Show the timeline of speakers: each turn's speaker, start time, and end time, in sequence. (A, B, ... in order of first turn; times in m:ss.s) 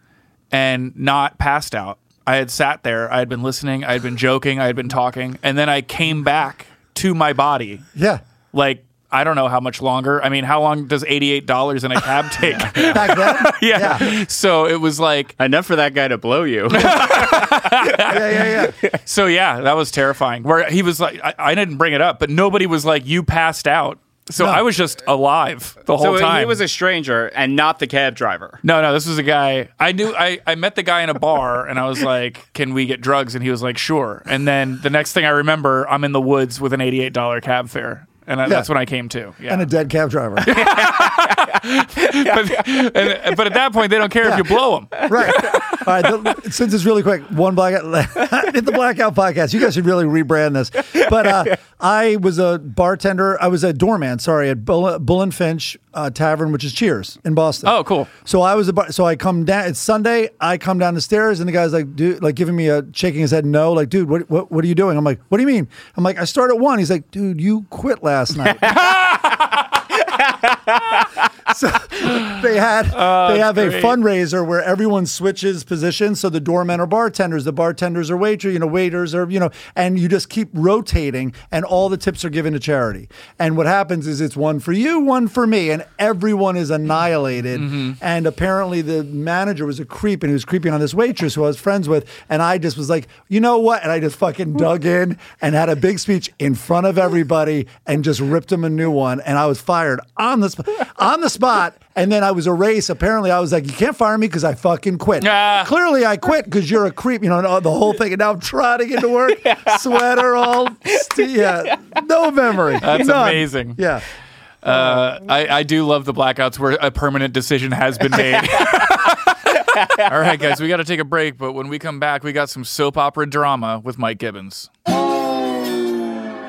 0:00.5-0:07.8 A
0:08.0-0:08.2 B
0:08.5-0:15.3 A
0:12.7-0:14.1 B
0:15.4-0:18.1 C
0:16.7-0:26.6 A
0:18.0-0:18.8 B
0:24.4-0:24.6 B
0:26.0-0:28.6 C
0:28.6-0:39.7 A
0:39.5-0:40.6 B
0:40.4-0:45.1 A
0:40.5-0:42.6 C
0:44.2-0:44.5 B
0:45.0-1:08.8 B
0:45.3-0:45.7 C
0:57.6-0:58.1 A
1:08.7-1:09.3 C
1:09.9-1:11.1 C
1:11.5-1:54.0 B
1:12.9-1:14.0 A
1:27.6-1:27.9 A
1:45.2-1:45.7 A
1:52.8-1:53.8 A
1:54.6-2:04.7 A
1:54.6-1:55.0 B
1:58.5-1:58.9 C
1:59.6-2:00.1 C